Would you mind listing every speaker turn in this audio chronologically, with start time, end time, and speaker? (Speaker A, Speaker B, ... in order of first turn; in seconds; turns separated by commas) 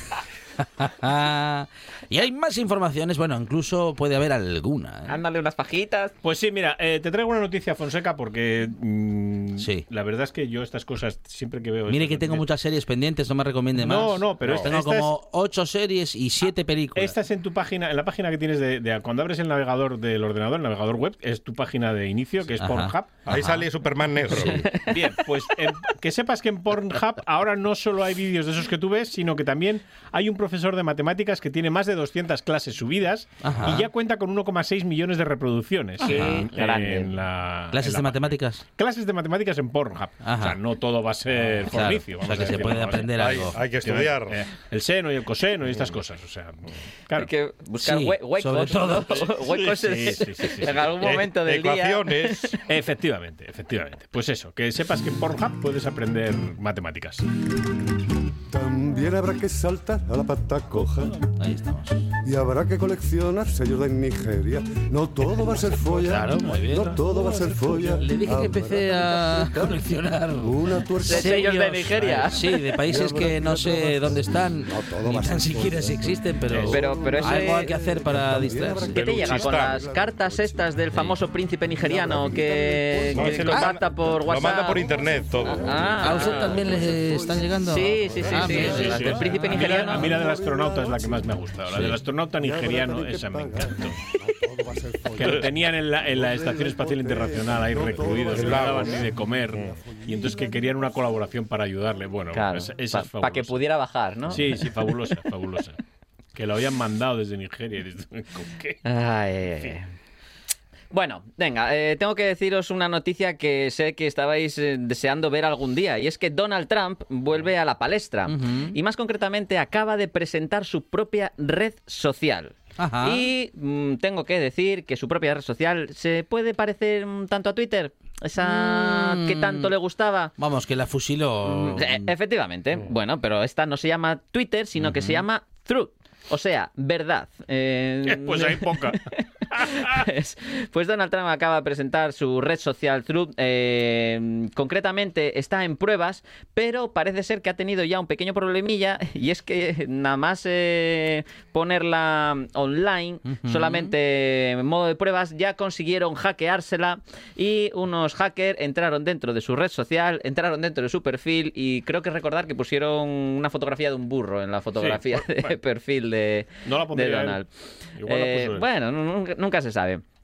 Speaker A: 0.8-5.2, Speaker B: 5.1-6.1, Speaker C: 6.2-12.4, Speaker A: 9.6-9.8, Speaker A: 11.9-17.2, Speaker C: 13.8-15.1, Speaker D: 14.4-14.7, Speaker C: 16.9-23.1, Speaker A: 22.6-23.7, Speaker D: 23.2-24.7, Speaker A: 24.3-24.7, Speaker C: 24.7-47.3, Speaker A: 33.4-33.9, Speaker B: 36.0-37.1, Speaker A: 36.0-36.5, Speaker A: 37.7-38.6, Speaker A: 40.2-40.6, Speaker A: 41.3-43.6, Speaker D: 43.1-44.4, Speaker B: 47.1-52.6, Speaker A: 47.8-49.3, Speaker C: 49.6-50.9, Speaker D: 50.7-52.6, Speaker C: 52.6-57.2, Speaker E: 58.5-61.3, Speaker A: 61.4-62.0, Speaker E: 62.2-81.0, Speaker A: 66.0-79.0, Speaker C: 66.1-66.9, Speaker B: 71.0-72.4, Speaker C: 76.5-76.8, Speaker B: 76.7-77.7, Speaker D: 78.9-79.8, Speaker B: 79.0-86.6, Speaker E: 81.6-101.3, Speaker D: 83.1-86.0, Speaker A: 86.0-90.2, Speaker B: 87.6-90.1, Speaker C: 88.4-94.0, Speaker A: 91.7-92.0, Speaker C: 95.2-103.6, Speaker D: 98.3-99.0, Speaker B: 102.3-104.9, Speaker C: 104.3-105.8, Speaker C: 106.3-108.8, Speaker B: 108.8-109.9, Speaker B: 110.9-130.3, Speaker A: 118.2-118.7, Speaker A: 122.8-123.3, Speaker A: 128.4-129.7, Speaker A: 130.4-132.1, Speaker B: 131.4-167.5, Speaker A: 134.8-135.2, Speaker C: 138.1-140.1, Speaker A: 153.3-153.9, Speaker C: 164.8-165.5, Speaker C: 166.6-167.4, Speaker C: 168.0-168.7, Speaker B: 168.1-170.0